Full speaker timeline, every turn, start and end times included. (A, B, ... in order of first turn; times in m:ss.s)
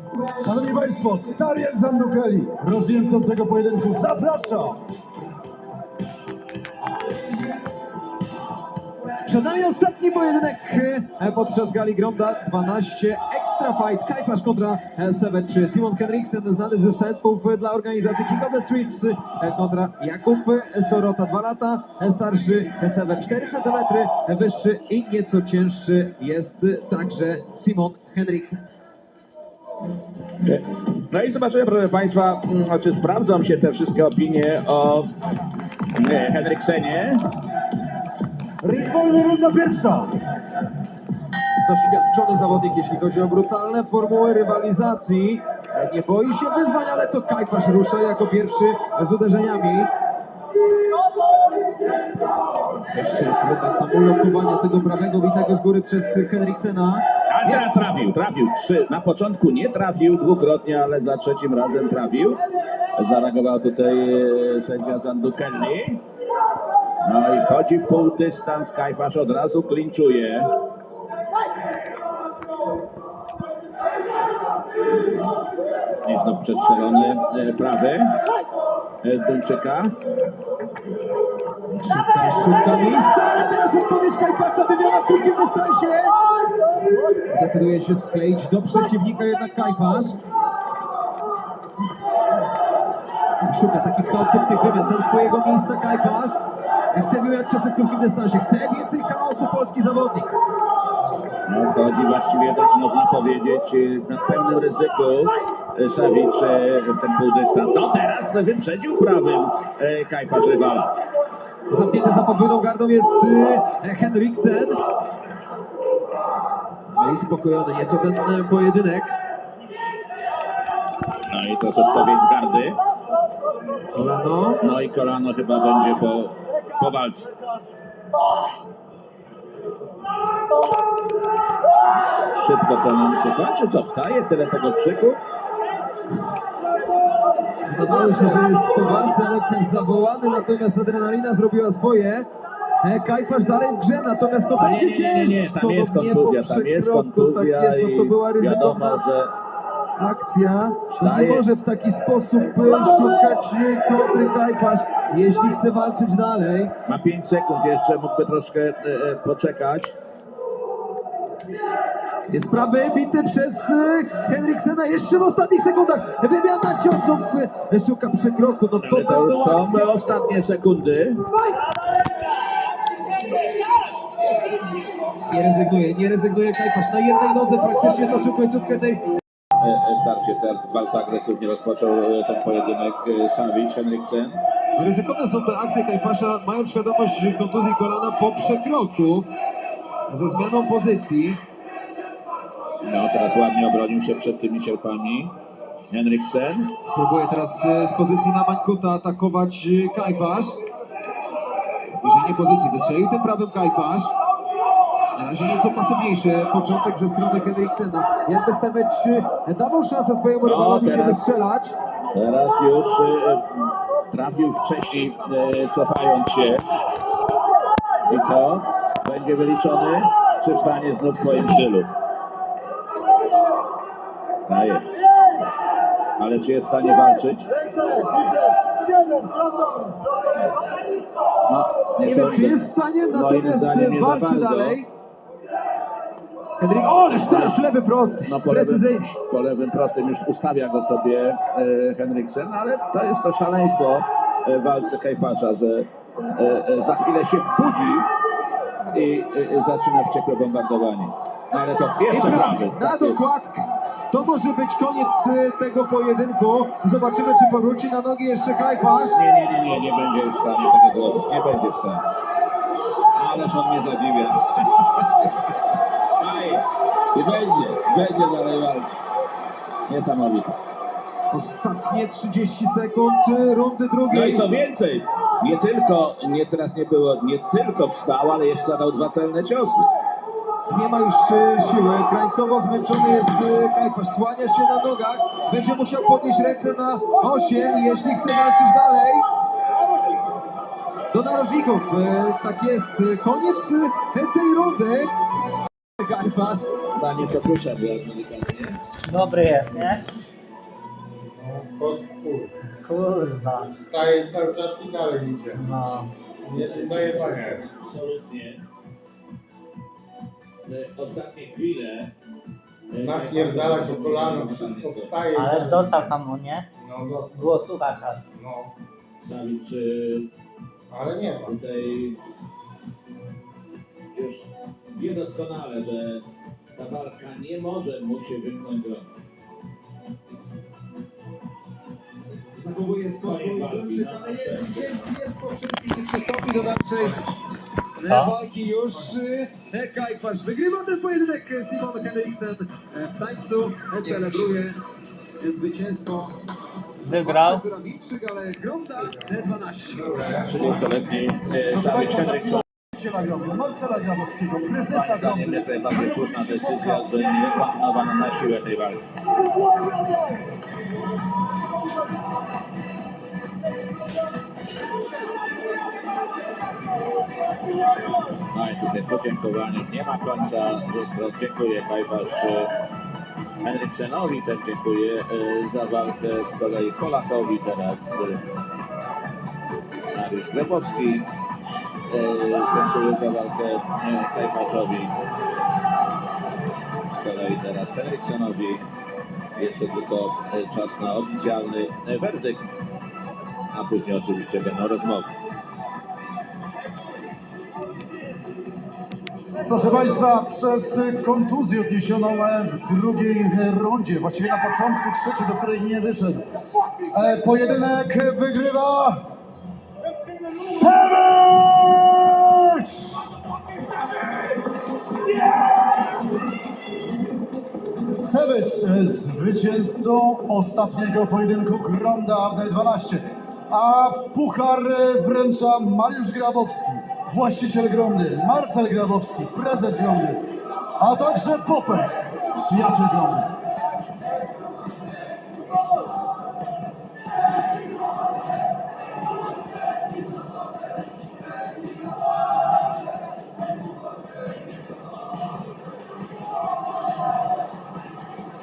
0:00.4-0:04.8 A
0:09.2-0:28.6 B
0:30.4-0:35.1 C
0:36.0-0:37.2 C
0:38.6-0:40.1 A
0:41.6-0:49.9 B
0:52.9-0:58.0 B
0:57.3-1:02.4 C
1:03.0-1:06.0 C
1:07.0-1:10.5 C
1:16.0-1:18.2 C
1:19.0-1:20.0 C
1:21.7-1:26.1 B
1:27.3-1:30.2 B
1:33.4-1:36.4 B
1:36.9-1:40.4 B
1:41.5-1:50.9 C
1:51.7-1:54.8 B
1:56.9-1:59.1 B
2:01.3-2:02.8 C
2:03.9-2:04.6 B
2:04.6-2:07.3 C
2:12.3-2:15.2 C
2:17.7-2:22.3 B
2:22.8-2:29.0 B
2:24.6-2:29.3 C
2:30.0-2:36.7 B
2:30.9-2:31.5 C
2:36.8-2:39.9 C
2:42.3-2:49.9 B
2:48.8-2:51.2 C
2:55.3-2:59.0 B
2:59.6-3:04.4 C
3:04.8-3:09.3 B
3:10.1-3:11.4 B
3:12.8-3:15.4 C
3:15.9-3:16.7 C
3:16.9-3:20.6 B
3:22.0-3:24.1 B
3:25.2-3:31.7 B
3:30.4-3:31.2 C
3:32.1-3:33.4 C
3:34.1-3:36.6 C
3:38.1-3:41.9 C
3:44.4-3:44.9 C
3:46.2-3:47.5 C
3:51.5-3:54.8 C
3:52.0-3:54.9 B
3:56.6-3:59.1 B
3:57.1-3:57.7 C
3:58.2-4:08.1 C
4:08.9-4:13.2 C
4:12.1-4:19.2 B
4:19.1-4:22.0 C
4:23.1-4:25.3 C
4:26.2-4:29.0 C
4:29.9-4:30.6 C
4:31.3-4:34.5 B
4:34.1-4:39.9 C
4:40.7-4:49.2 B
4:51.1-4:55.1 B
4:56.0-4:56.7 B
4:56.8-4:58.8 C
4:59.0-5:00.0 D
5:01.4-5:02.5 E
5:02.8-5:03.7 D
5:03.7-5:05.6 E
5:05.5-5:06.1 D
5:06.4-5:07.7 E
5:06.5-5:08.6 C
5:10.6-5:12.1 C
5:12.9-5:15.2 C
5:12.9-5:16.1 E
5:15.3-5:16.7 D
5:16.8-5:17.6 E
5:17.3-5:18.2 D
5:18.3-5:18.7 E
5:19.2-5:20.3 C
5:20.9-5:21.6 E
5:21.4-5:22.2 C
5:24.1-5:29.1 C
5:32.5-5:37.2 B
5:33.2-5:35.1 C
5:38.0-5:44.8 B
5:38.0-5:38.3 D
5:45.4-5:46.3 B
5:47.0-5:47.6 D
5:47.1-5:50.6 B
5:50.1-5:50.4 E
5:50.4-5:52.6 C
5:51.7-5:57.6 A
5:54.9-5:59.0 C
5:59.6-6:00.3 A
6:08.5-6:12.7 C
6:13.6-6:18.4 C
6:20.1-6:21.3 C
6:22.1-6:25.1 C
6:27.0-6:28.9 C
6:29.6-6:32.6 C
6:33.7-6:35.3 C
6:39.7-6:46.5 A
6:47.1-6:49.2 A
6:50.4-6:53.2 A
6:58.1-7:10.5 A
7:11.0-7:13.5 A